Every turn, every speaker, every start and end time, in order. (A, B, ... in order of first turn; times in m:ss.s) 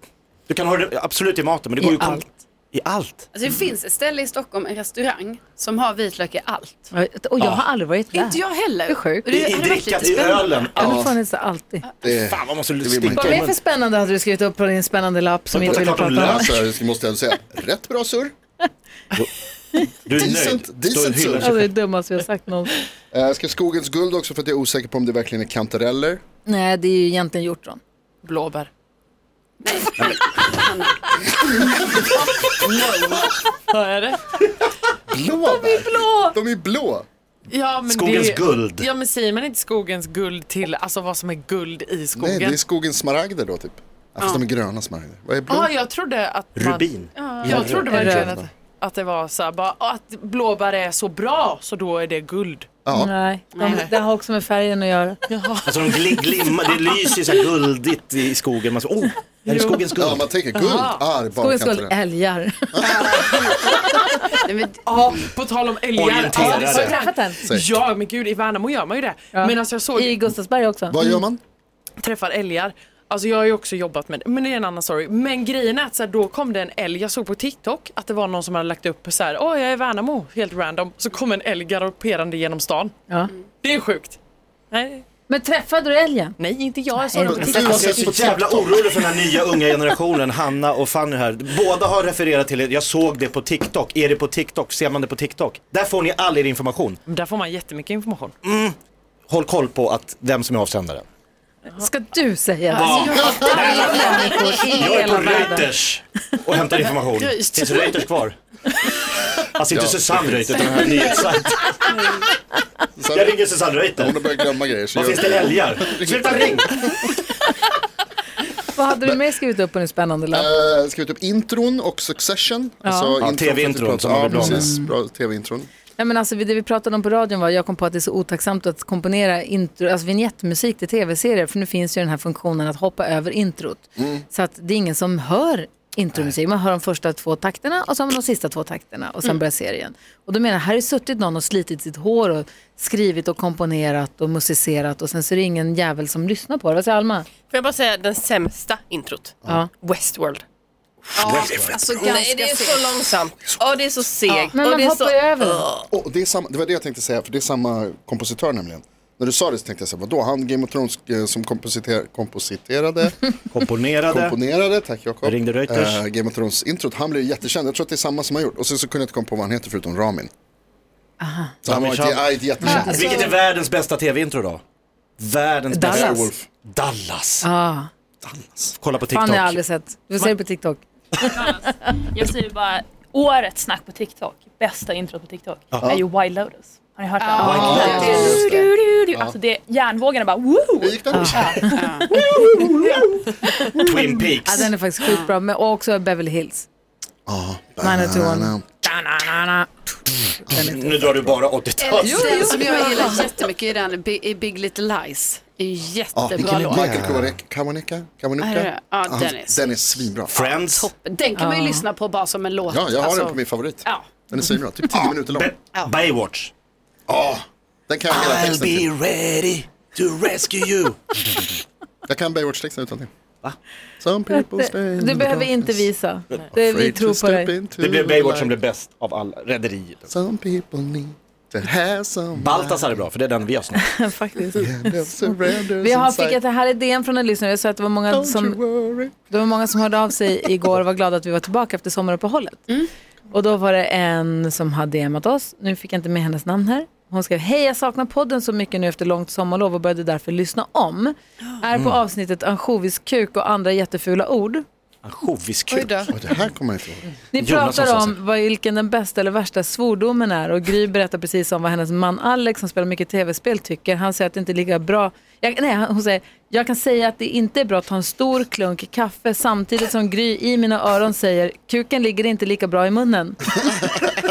0:00.5-0:03.3 A
0:01.8-0:02.2 B
0:03.3-0:06.9 C
0:06.9-0:09.3 B
0:08.1-0:10.7 C
0:09.3-0:11.0 A
0:10.7-0:11.8 B
0:10.8-0:11.1 D
0:12.0-0:13.5 D
0:12.0-0:13.6 A
0:13.1-0:16.6 B
0:15.5-0:16.6 A
0:15.6-0:18.3 D
0:20.0-0:21.7 A
0:20.1-0:21.6 D
0:21.4-0:22.7 B
0:23.1-0:26.2 D
0:26.4-0:27.8 B
0:28.2-0:28.7 E
0:29.6-0:31.2 C
0:32.3-0:34.4 E
0:35.1-0:37.0 D
0:35.6-0:36.3 E
0:37.5-0:42.6 E
0:37.9-0:38.9 A
0:42.2-0:45.7 D
0:45.5-0:46.9 E
0:46.5-0:48.1 A
0:47.2-0:47.8 C
0:47.4-0:52.7 E
0:47.4-0:48.5 D
0:47.9-0:48.3 B
0:52.8-0:53.1 D
0:52.9-0:55.2 B
0:53.5-0:53.8 C
0:53.6-0:53.9 E
0:55.3-0:56.7 E
0:55.6-1:00.3 A
0:59.4-0:59.9 E
0:59.9-1:02.0 D
1:00.5-1:01.0 E
1:01.4-1:04.1 B
1:02.7-1:03.5 D
1:03.6-1:04.3 E
1:04.4-1:05.3 C
1:04.8-1:10.3 E
1:05.9-1:07.0 A
1:06.6-1:07.4 B
1:07.4-1:07.7 D
1:09.3-1:11.0 B
1:10.9-1:11.4 D
1:12.0-1:22.9 E
1:23.6-1:24.2 E
1:24.7-1:25.0 E
1:25.3-1:26.4 B
1:26.4-1:29.2 E
1:27.0-1:27.5 B
1:27.2-1:28.8 D
1:27.5-1:37.0 A
1:37.1-1:38.3 E
1:38.4-1:38.8 A
1:39.3-1:41.0 A
1:41.7-1:45.7 B
1:42.7-1:48.4 A
1:42.8-1:44.5 C
1:47.2-1:48.1 E
1:49.4-1:51.9 A
1:49.7-1:51.3 D
1:51.8-1:52.3 C
1:53.0-1:53.4 D
1:53.1-1:56.8 A
1:54.0-1:57.1 D
1:58.6-2:00.5 B
2:00.3-2:05.7 D
2:02.8-2:03.2 B
2:03.2-2:04.7 A
2:04.3-2:04.9 B
2:06.0-2:27.3 B
2:14.0-2:14.2 D
2:27.5-2:30.4 F
2:31.2-2:33.1 C
2:31.2-2:31.8 A
2:31.3-2:35.9 F
2:34.3-2:35.6 B
2:35.9-2:43.3 D
2:43.5-2:44.4 A
2:44.1-2:50.3 D
2:45.2-2:46.0 A
2:51.2-2:51.6 B
2:51.6-2:53.2 D
2:51.6-2:54.6 A
2:52.6-2:53.3 B
2:52.7-2:53.3 C
2:55.2-2:57.5 A
2:55.7-2:56.3 B
2:55.8-2:56.4 D
2:57.4-2:57.9 B
2:58.2-2:58.8 D
2:58.8-2:59.6 A
2:59.1-3:01.4 B
3:01.4-3:11.8 G
3:07.2-3:08.6 C
3:07.4-3:08.1 A
3:07.4-3:08.3 B
3:07.4-3:09.4 D
3:10.8-3:13.4 D
3:11.1-3:11.8 B
3:11.7-3:12.1 C
3:13.7-3:16.7 B
3:13.8-3:14.7 A
3:17.3-3:18.6 D
3:17.8-3:19.9 B
3:20.4-3:21.0 B
3:20.5-3:21.3 D
3:20.5-3:22.9 A
3:21.8-3:27.1 C
3:22.0-3:23.2 B
3:26.1-3:30.3 D
3:26.4-3:27.4 A
3:28.4-3:34.4 C
3:30.3-3:30.9 A
3:31.3-3:31.8 B
3:32.7-3:35.5 D
3:35.2-3:36.5 A
3:37.1-3:38.9 D
3:38.1-3:41.6 A
3:42.1-3:43.1 D
3:44.0-3:45.9 D
3:44.3-3:47.5 B
3:46.5-3:48.5 D
3:47.8-3:50.0 A
3:50.1-3:52.6 D
3:52.4-3:53.8 A
3:53.8-3:58.6 B
3:54.6-3:56.4 D
3:58.1-3:59.1 D
3:59.1-4:02.7 B
4:03.3-4:14.6 B
4:15.0-4:16.1 A
4:15.7-4:16.1 C
4:16.1-4:17.0 D
4:17.3-4:33.8 B
4:17.4-4:18.2 A